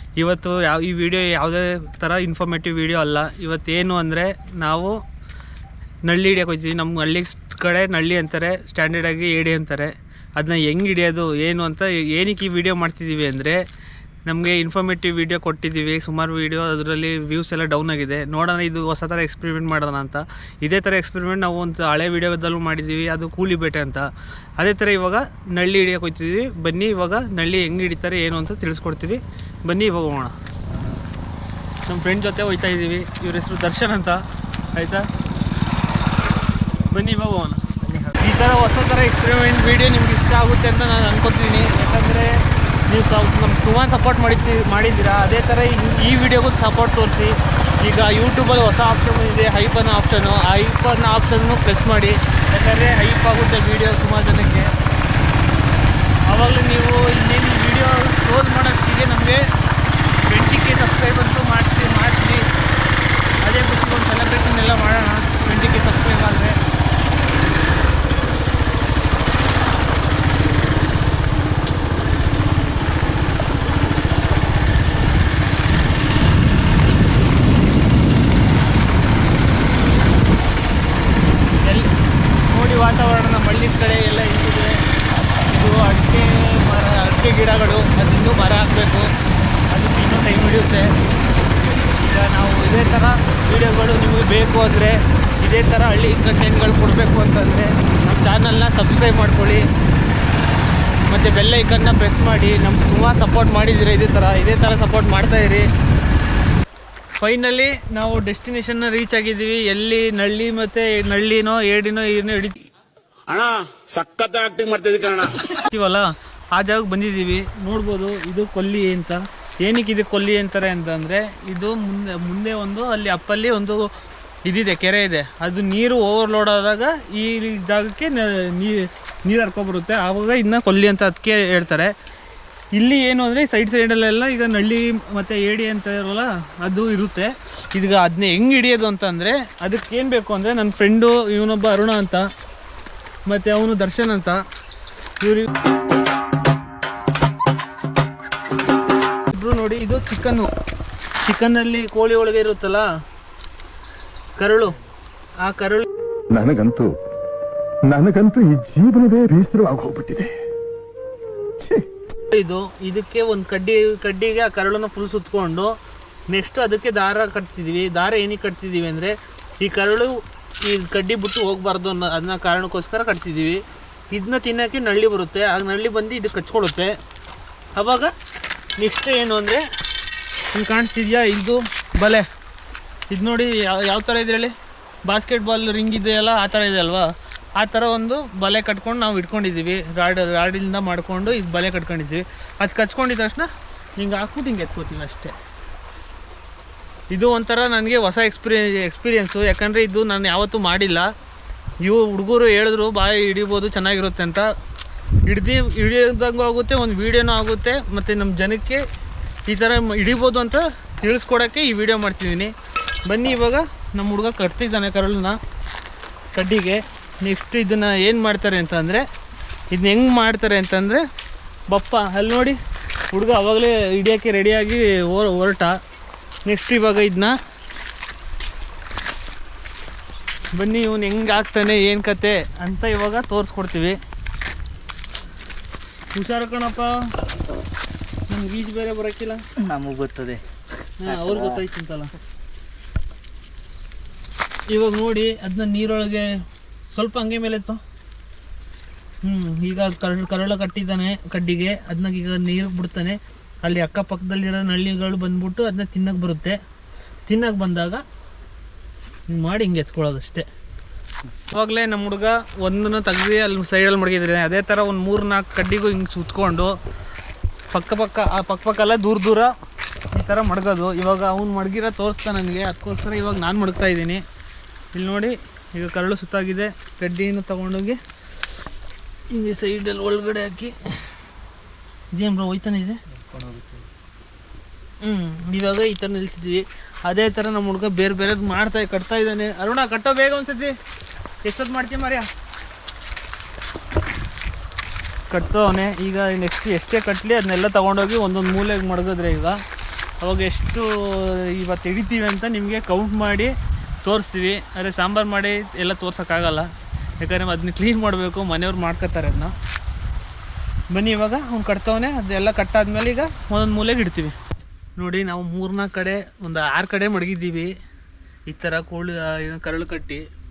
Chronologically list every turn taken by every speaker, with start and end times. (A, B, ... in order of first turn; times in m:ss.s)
0:00.2-0:05.0 A
0:06.0-0:13.6 A
0:14.2-0:30.3 A
0:30.7-0:31.0 B
0:31.8-0:34.2 A
0:34.7-0:35.1 A
0:36.9-0:37.6 A
0:37.8-0:38.2 B
0:38.2-0:54.7 A
0:56.3-0:59.4 A
1:00.3-1:02.4 A
1:03.4-1:06.6 A
1:21.6-1:21.9 A
1:22.4-1:24.8 A
1:25.5-1:29.1 A
1:29.7-1:30.9 A
1:31.9-1:39.6 A
1:41.1-1:45.7 A
1:47.2-1:52.6 A
1:53.3-1:55.3 C
1:55.7-2:03.9 A
2:04.4-2:11.9 A
2:12.8-2:22.3 A
2:23.3-2:24.4 A
2:25.2-2:25.5 A
2:29.3-2:30.5 A
2:31.2-2:32.9 A
2:34.4-2:34.8 A
2:35.4-2:35.8 A
2:36.3-2:36.9 D
2:37.8-2:40.3 D
2:41.6-2:41.9 D
2:42.3-2:45.8 A
2:46.3-2:57.0 A
2:57.8-2:58.1 A
2:58.8-2:59.6 A
3:00.5-3:02.2 A
3:03.1-3:04.5 A
3:05.0-3:15.3 A
3:17.1-3:21.1 A
3:21.8-3:24.5 A
3:25.3-3:28.8 A
3:29.5-3:32.5 A
3:33.0-3:35.4 A
3:36.3-3:39.0 A
3:39.7-3:41.0 A
3:41.7-3:42.6 A
3:43.1-3:45.8 A
3:46.4-3:47.3 A
3:50.5-3:54.0 A
3:56.1-3:57.1 A
3:58.3-3:59.4 A
3:59.6-4:00.4 B
4:01.0-4:02.1 A
4:01.0-4:01.6 B
4:04.7-4:07.8 A
4:09.2-4:16.6 A
4:17.3-4:18.0 A
4:19.3-4:20.5 A
4:21.5-4:26.7 A
4:27.7-4:29.5 A
4:30.1-4:34.2 A
4:34.9-4:38.0 A
4:39.3-4:41.2 A
4:42.1-4:43.0 A
4:43.1-4:43.9 B
4:45.0-4:50.7 A
4:51.4-4:52.3 A
4:55.3-4:59.6 A
5:00.2-5:03.5 A
5:04.0-5:06.7 A
5:07.2-5:09.5 A
5:10.9-5:14.3 A
5:15.0-5:17.7 A
5:18.5-5:20.2 A